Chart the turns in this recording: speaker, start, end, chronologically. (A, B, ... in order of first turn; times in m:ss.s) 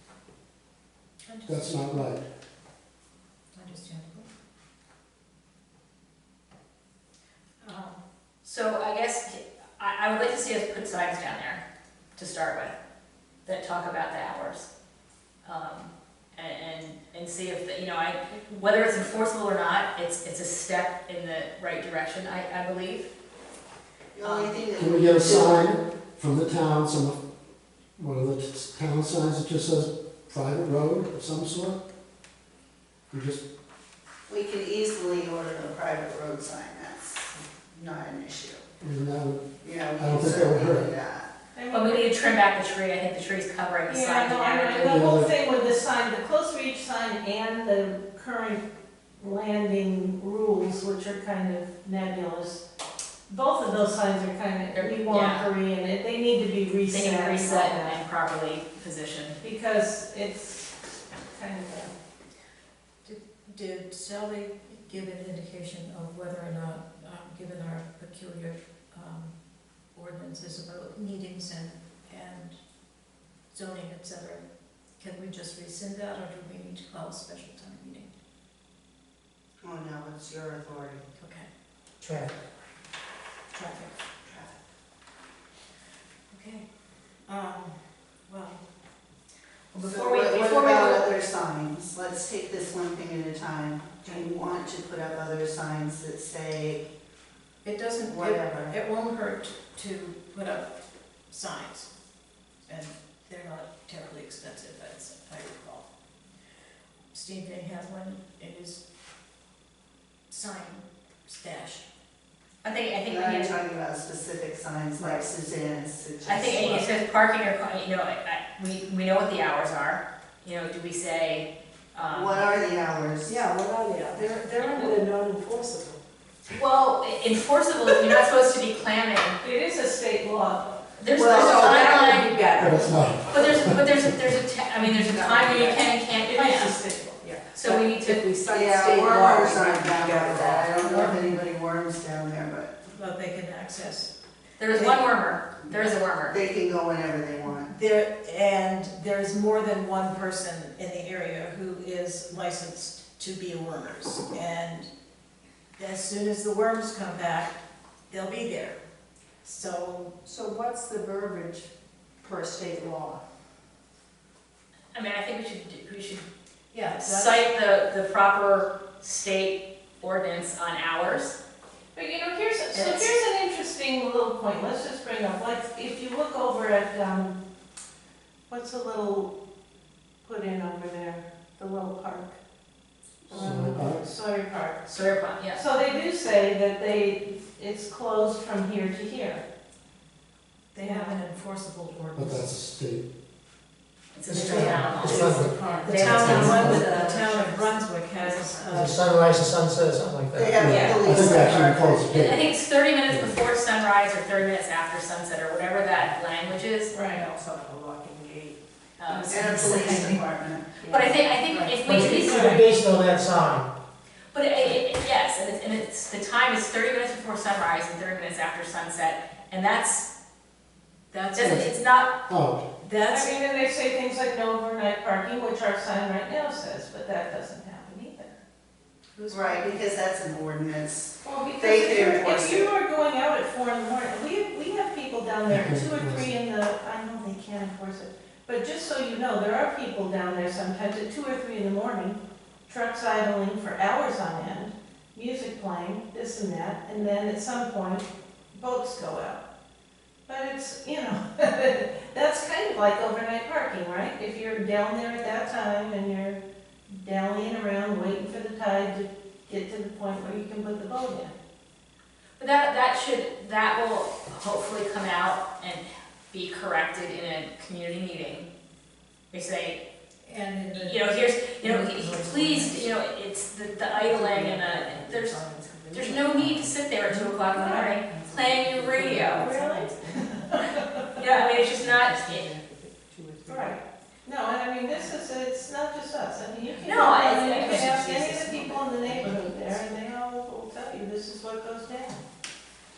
0:01.3-0:02.1 A
0:01.5-0:02.2 B
0:03.5-0:04.3 A
0:07.6-0:08.0 A
0:08.4-0:11.6 C
0:12.2-0:12.7 C
0:13.4-0:14.7 C
0:15.4-0:23.1 C
0:24.1-0:25.6 D
0:24.2-0:24.6 C
0:24.8-0:27.2 B
0:28.0-0:31.8 B
0:33.1-0:33.4 B
0:34.3-0:38.6 D
0:38.8-0:40.9 B
0:39.6-0:41.3 D
0:41.5-0:42.1 E
0:41.7-0:45.1 C
0:43.9-0:48.6 E
0:44.8-0:45.3 B
0:49.2-0:52.6 E
0:53.3-0:58.0 E
0:54.7-0:55.5 C
0:56.9-0:59.4 C
0:59.4-1:00.7 E
1:01.3-1:01.9 E
1:03.0-1:09.3 A
1:10.0-1:12.6 A
1:13.5-1:14.4 A
1:15.0-1:18.1 A
1:19.6-1:21.0 D
1:21.2-1:21.5 A
1:22.0-1:22.3 F
1:23.5-1:23.9 A
1:24.2-1:24.6 D
1:26.3-1:26.6 A
1:27.3-1:27.7 A
1:28.3-1:28.6 A
1:29.7-1:31.1 C
1:29.8-1:36.9 D
1:37.6-1:40.7 A
1:38.0-1:38.8 D
1:41.3-1:41.9 A
1:42.7-1:45.8 A
1:47.1-1:48.8 A
1:50.3-1:51.9 A
1:52.6-1:53.6 C
1:53.1-1:56.9 D
1:55.0-1:55.2 A
1:56.2-2:02.6 C
1:56.5-1:56.9 A
2:02.1-2:03.3 D
2:03.3-2:06.0 G
2:03.3-2:05.1 A
2:06.5-2:09.4 C
2:09.4-2:11.7 E
2:11.0-2:12.6 C
2:11.1-2:12.0 D
2:11.4-2:13.0 A
2:12.6-2:13.7 B
2:13.2-2:16.8 C
2:16.2-2:17.2 E
2:17.2-2:20.9 G
2:17.5-2:18.2 C
2:18.1-2:18.5 A
2:18.5-2:22.8 D
2:20.8-2:21.4 A
2:22.9-2:24.1 A
2:24.6-2:26.4 C
2:24.7-2:25.1 A
2:25.8-2:27.7 D
2:27.6-2:34.9 A
2:35.8-2:37.6 A
2:38.1-2:38.8 A
2:39.4-2:40.3 A
2:40.2-2:41.7 G
2:40.9-2:41.2 A
2:42.2-2:43.2 G
2:44.9-2:46.3 C
2:46.7-2:47.5 A
2:47.0-2:51.4 C
2:52.0-2:57.4 E
2:52.7-2:53.1 A
2:58.5-2:59.3 E
3:00.2-3:02.4 E
3:03.3-3:04.0 B
3:03.3-3:04.9 E
3:04.9-3:05.6 C
3:05.5-3:09.4 E
3:10.7-3:12.5 A
3:10.8-3:11.2 E
3:12.2-3:13.1 B
3:14.1-3:16.8 C
3:14.3-3:19.2 A
3:14.3-3:15.6 F
3:15.0-3:15.3 B
3:16.0-3:16.8 B
3:16.2-3:17.0 F
3:17.3-3:18.8 G
3:18.7-3:20.6 F
3:20.3-3:22.2 D
3:20.6-3:22.4 B
3:20.6-3:21.6 E
3:22.1-3:27.0 C
3:23.1-3:23.4 B
3:26.9-3:27.2 E
3:27.1-3:29.7 G
3:29.0-3:29.8 C
3:29.3-3:30.8 D
3:29.6-3:30.2 E
3:30.8-3:31.9 G
3:30.8-3:32.6 C
3:31.8-3:33.7 F
3:32.1-3:32.6 E
3:34.3-3:40.1 C
3:41.1-3:41.7 A
3:41.3-3:42.2 C
3:41.4-3:41.7 B
3:42.3-3:42.6 B
3:42.8-3:43.3 A
3:43.0-3:48.4 E
3:49.2-3:49.8 A
3:49.3-3:52.7 D
3:51.2-4:09.4 E
3:55.5-3:56.3 B
4:10.3-4:21.3 E
4:22.4-4:28.5 C
4:29.3-4:29.8 C
4:30.2-4:31.1 A
4:30.8-4:39.5 C
4:31.6-4:32.7 A
4:33.9-4:43.8 G
4:37.5-4:38.0 E
4:39.4-4:40.8 E
4:41.2-4:42.5 C
4:43.4-4:52.2 E
4:46.8-4:47.9 C
4:47.7-4:49.8 G